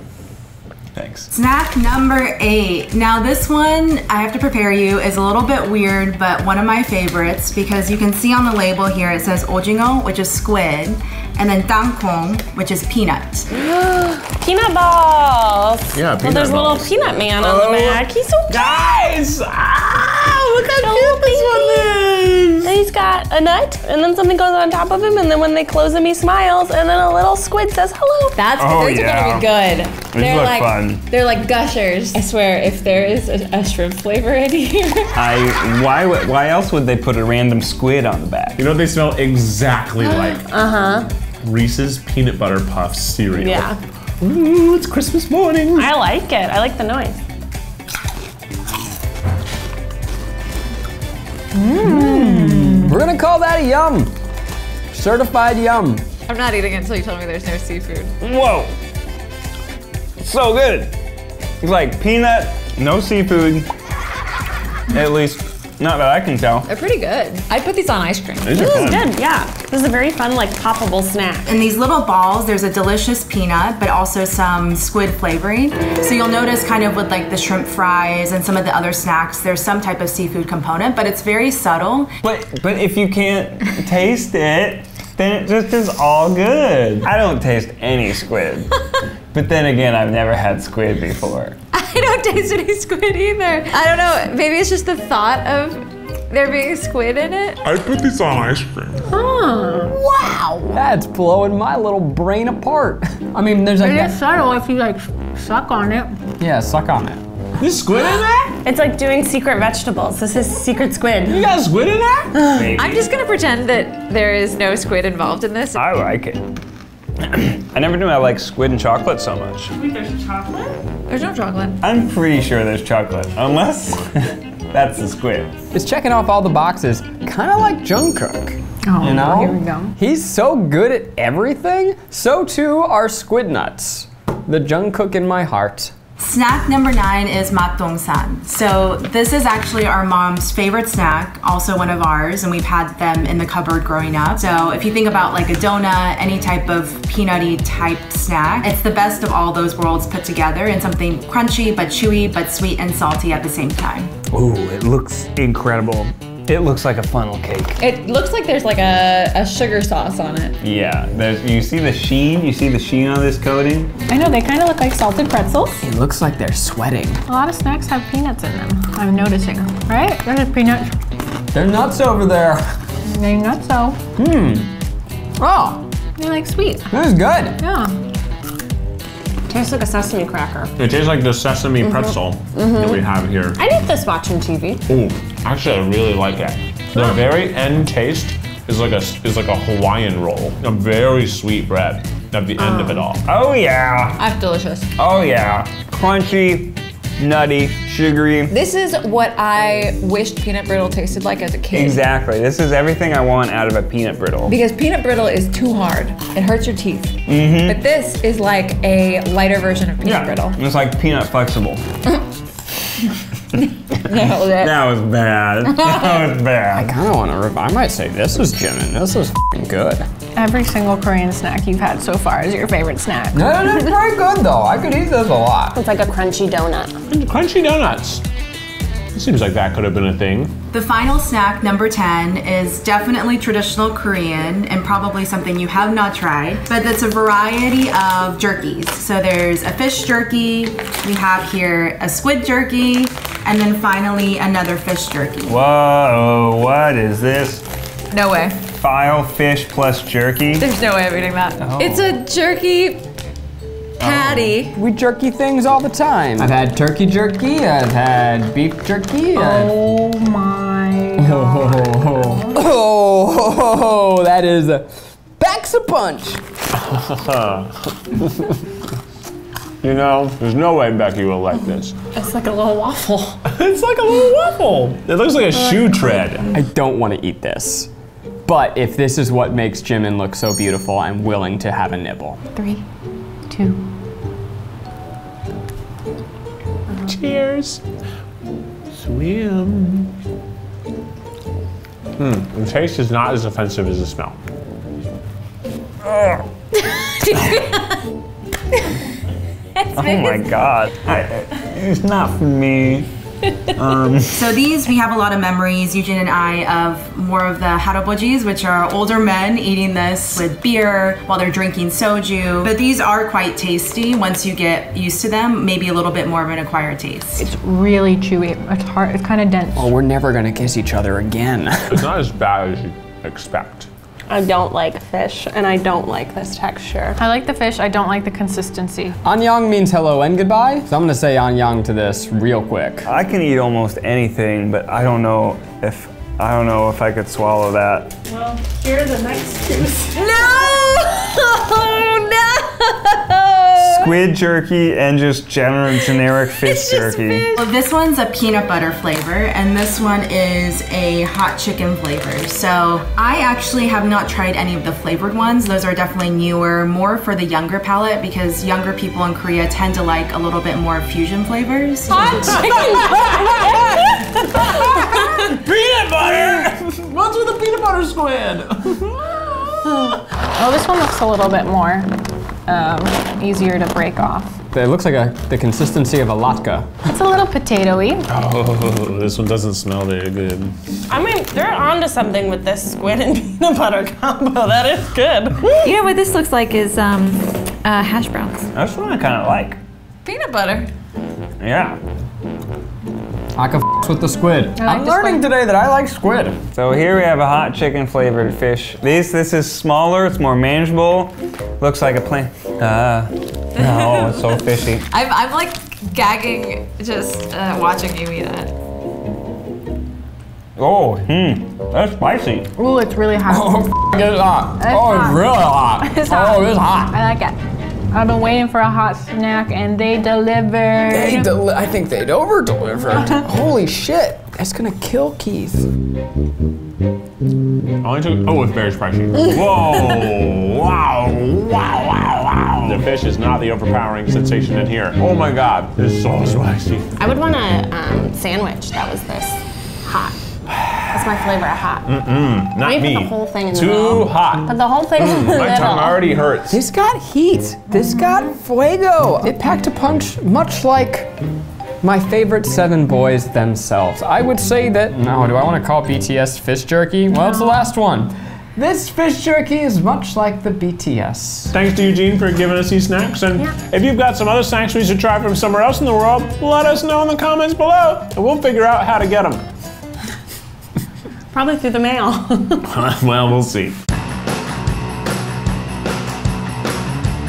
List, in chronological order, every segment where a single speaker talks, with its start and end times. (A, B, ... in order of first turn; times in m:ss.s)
0:00.9-0:01.3 A
0:01.3-0:13.5 B
0:13.8-0:18.8 C
0:15.9-0:22.8 D
0:20.8-0:22.0 C
0:22.6-0:28.4 C
0:28.4-0:35.4 E
0:28.6-0:29.5 A
0:30.1-0:31.0 A
0:35.1-0:38.6 A
0:38.6-0:40.4 D
0:40.4-0:41.1 C
0:41.4-0:46.0 D
0:43.3-0:43.8 C
0:45.7-0:47.2 C
0:51.5-0:52.9 F
0:51.8-0:54.1 G
0:54.9-0:56.0 G
0:56.3-0:58.1 E
0:58.2-0:58.7 A
1:00.2-1:00.9 A
1:01.6-1:03.6 A
1:04.9-1:06.7 A
1:06.6-1:09.0 E
1:08.4-1:09.2 D
1:08.6-1:11.4 C
1:11.4-1:22.1 B
1:22.2-1:28.7 A
1:29.3-1:31.6 A
1:31.7-1:37.6 E
1:37.6-1:39.0 D
1:39.1-1:40.8 F
1:40.7-1:44.2 G
1:43.8-1:46.1 F
1:46.4-1:47.2 G
1:47.6-1:48.6 D
1:48.6-1:51.5 C
1:51.3-1:52.4 D
1:52.3-1:52.7 C
1:52.5-1:53.1 A
1:52.7-1:55.8 E
1:55.8-1:56.4 A
1:57.2-1:59.7 A
1:59.7-2:00.8 C
2:01.1-2:01.8 E
2:01.8-2:05.5 A
2:05.7-2:15.9 G
2:08.8-2:09.9 F
2:16.2-2:34.1 B
2:34.3-2:37.8 A
2:37.8-2:40.6 E
2:40.6-2:43.9 A
2:44.1-2:45.8 F
2:45.8-2:47.2 G
2:47.3-2:50.9 F
2:51.5-2:52.6 G
2:53.0-2:54.0 F
2:54.2-2:54.7 G
2:55.4-2:55.9 G
2:56.2-2:57.0 F
2:56.9-2:57.6 G
2:57.6-2:57.9 F
2:59.5-3:00.7 C
3:00.8-3:03.6 D
3:01.8-3:04.8 C
3:04.9-3:13.2 D
3:12.6-3:13.0 E
3:13.2-3:14.2 A
3:14.2-3:14.9 E
3:15.0-3:18.5 A
3:18.5-3:22.0 E
3:21.7-3:24.5 A
3:24.5-3:30.6 E
3:27.2-3:27.8 A
3:30.0-3:31.8 A
3:34.0-3:34.8 E
3:34.2-3:36.9 A
3:35.6-3:36.3 E
3:36.7-3:40.0 G
3:40.3-3:44.0 F
3:43.3-3:45.8 G
3:45.7-3:46.9 C
3:47.1-3:48.2 D
3:49.1-3:50.5 D
3:50.7-4:05.6 B
4:05.4-4:07.6 A
4:08.1-4:08.6 E
4:08.7-4:10.7 A
4:10.6-4:13.0 E
4:11.6-4:12.2 A
4:14.0-4:14.5 A
4:14.0-4:14.8 E
4:14.7-4:19.8 G
4:19.3-4:22.6 F
4:21.2-4:26.4 G
4:26.8-4:28.3 D
4:29.8-4:32.0 D
4:32.1-4:33.4 C
4:33.5-4:36.5 D
4:35.5-4:36.4 C
4:36.5-4:37.9 G
4:38.4-4:42.4 G
4:42.5-4:42.8 F
4:43.5-4:43.8 F
4:47.0-4:47.8 D
4:48.9-4:50.1 D
4:52.2-4:54.4 D
4:56.0-4:56.4 A
4:56.7-4:58.0 E
4:59.8-5:00.5 E
5:00.0-5:03.1 A
5:03.7-5:04.5 A
5:04.3-5:17.4 B
5:17.4-5:19.9 F
5:19.8-5:22.1 G
5:21.9-5:23.9 D
5:24.3-5:27.2 C
5:27.2-5:29.1 F
5:29.2-5:33.1 G
5:33.0-5:38.1 A
5:38.3-5:40.3 C
5:40.2-5:44.2 E
5:43.8-5:47.5 A
5:46.1-5:47.6 E
5:47.6-6:02.3 B
6:02.1-6:03.9 F
6:02.3-6:10.2 D
6:10.6-6:12.1 F
6:12.7-6:14.5 F
6:14.7-6:17.0 G
6:17.1-6:18.2 F
6:18.3-6:20.7 D
6:21.1-6:25.6 C
6:25.8-6:28.7 E
6:28.7-6:29.8 A
6:30.2-6:30.9 E
6:31.6-6:32.0 A
6:33.6-6:36.6 G
6:34.8-6:35.4 F
6:36.7-6:45.0 A
6:43.8-6:48.7 E
6:50.8-6:52.7 A
6:52.8-6:54.0 F
6:53.5-6:57.2 G
6:54.8-6:57.6 F
6:58.1-7:01.5 F
7:01.1-7:05.9 G
7:08.0-7:17.1 D
7:17.2-7:20.4 C
7:20.7-7:21.4 D
7:21.1-7:22.2 C
7:22.0-7:26.8 D
7:22.7-7:26.4 C
7:26.7-7:31.3 G
7:32.0-7:41.7 G
7:37.3-7:37.8 F
7:41.7-7:49.6 D
7:51.5-7:52.9 C
7:52.8-7:53.9 D